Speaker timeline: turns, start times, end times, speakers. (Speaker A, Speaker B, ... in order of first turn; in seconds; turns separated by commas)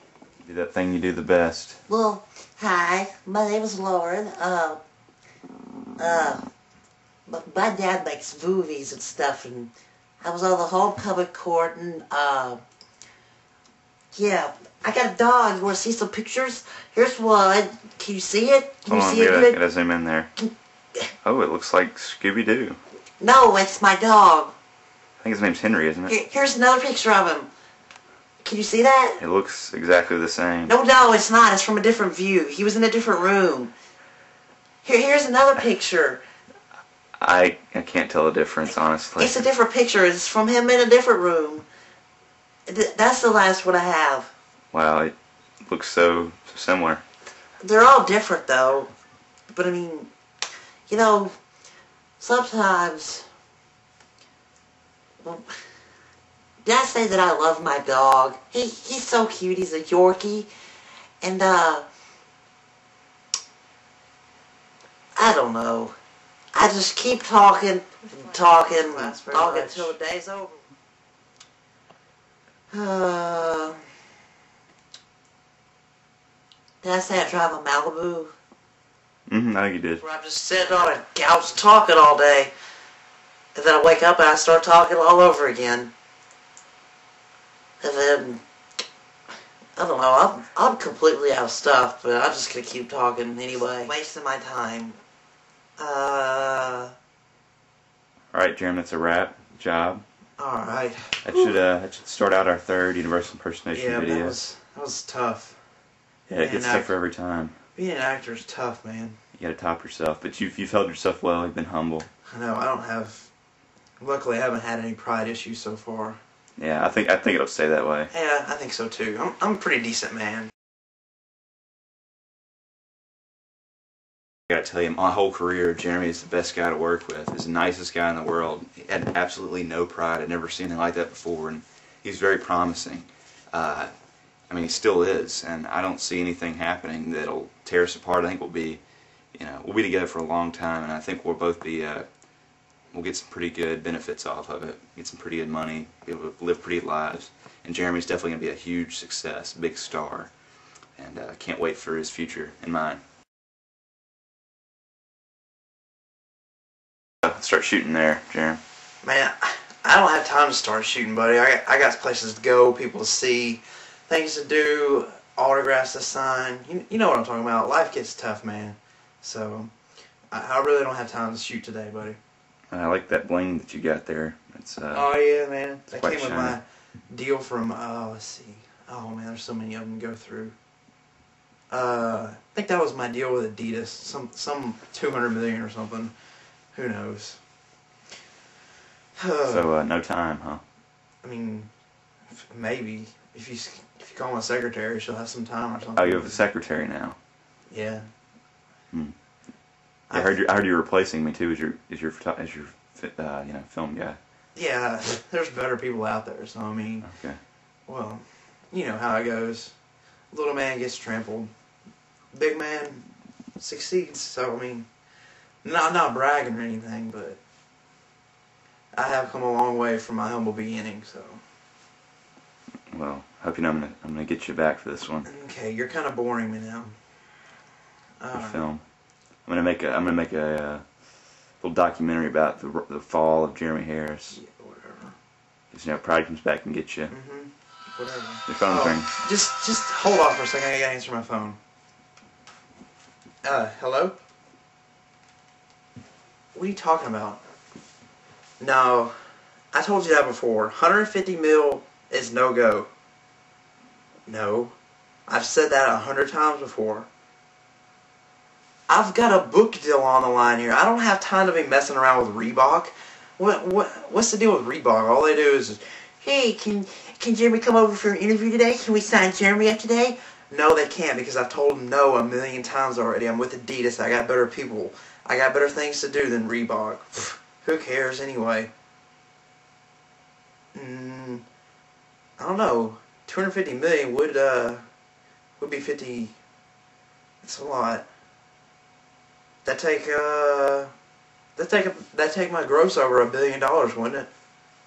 Speaker A: 0.4-1.8, Speaker B: 1.9-4.8, Speaker B: 6.0-6.4, Speaker B: 7.3-12.6, Speaker B: 14.1-19.6, Speaker A: 18.9-20.3, Speaker A: 21.2-22.8, Speaker B: 23.2-24.5, Speaker A: 25.2-26.2, Speaker B: 26.1-27.5, Speaker B: 28.4-29.2, Speaker A: 29.2-30.7, Speaker B: 30.7-33.7, Speaker B: 34.8-36.2, Speaker A: 37.2-39.5, Speaker B: 39.2-41.6, Speaker B: 42.7-44.3, Speaker A: 44.7-45.1, Speaker A: 45.6-47.0, Speaker B: 47.6-48.9, Speaker B: 49.5-50.1, Speaker B: 50.9-51.3, Speaker B: 52.2-53.3, Speaker B: 56.6-60.5, Speaker B: 61.2-61.9, Speaker B: 65.2-65.9, Speaker B: 66.5-70.6, Speaker C: 68.1-70.0, Speaker B: 72.7-73.8, Speaker B: 76.8-78.3, Speaker A: 79.3-80.0, Speaker B: 80.0-82.5, Speaker C: 80.5-80.9, Speaker B: 83.5-85.9, Speaker B: 87.8-88.4, Speaker B: 89.8-93.9, Speaker C: 93.5-95.0, Speaker C: 95.8-96.9, Speaker A: 98.3-100.0, Speaker C: 100.4-101.5, Speaker A: 101.2-104.4, Speaker C: 103.7-105.6, Speaker A: 106.3-107.5, Speaker C: 106.3-106.9, Speaker C: 107.7-109.2, Speaker A: 109.4-112.1, Speaker C: 112.3-113.3, Speaker C: 114.0-116.2, Speaker A: 116.6-118.1, Speaker C: 118.1-120.5, Speaker A: 124.5-133.9, Speaker A: 134.5-138.8, Speaker A: 139.3-142.0, Speaker A: 142.9-150.3, Speaker A: 151.0-153.0, Speaker A: 157.2-158.6, Speaker C: 159.0-169.7, Speaker C: 170.3-172.2, Speaker A: 172.7-175.1, Speaker C: 174.9-180.5, Speaker A: 175.9-176.6, Speaker C: 181.7-186.1, Speaker C: 186.7-187.4, Speaker C: 189.2-189.7, Speaker A: 189.4-190.6, Speaker C: 191.2-191.7, Speaker C: 192.4-196.4, Speaker A: 195.9-197.2, Speaker C: 197.7-198.1, Speaker C: 200.1-200.4, Speaker A: 200.1-204.2, Speaker C: 204.5-207.1, Speaker A: 207.0-207.4, Speaker C: 207.9-209.7, Speaker C: 210.3-211.5, Speaker C: 212.3-213.1, Speaker C: 213.6-214.9, Speaker C: 215.6-217.4, Speaker C: 218.9-221.4, Speaker A: 222.9-225.3, Speaker C: 225.2-226.9, Speaker C: 228.2-228.7, Speaker A: 228.3-228.8, Speaker A: 229.4-230.8, Speaker A: 231.6-234.4, Speaker C: 234.3-235.1, Speaker A: 235.7-237.1, Speaker C: 237.1-241.6, Speaker A: 238.5-239.1, Speaker C: 243.4-244.2, Speaker C: 246.5-247.4, Speaker C: 248.6-249.1, Speaker C: 249.7-252.9, Speaker C: 254.3-254.7, Speaker C: 255.3-257.1, Speaker C: 258.9-265.8, Speaker B: 266.2-270.2, Speaker C: 270.5-278.7, Speaker C: 280.7-281.4, Speaker C: 282.4-284.8, Speaker C: 285.6-286.3, Speaker C: 287.4-288.1, Speaker C: 289.6-290.9, Speaker C: 291.6-294.3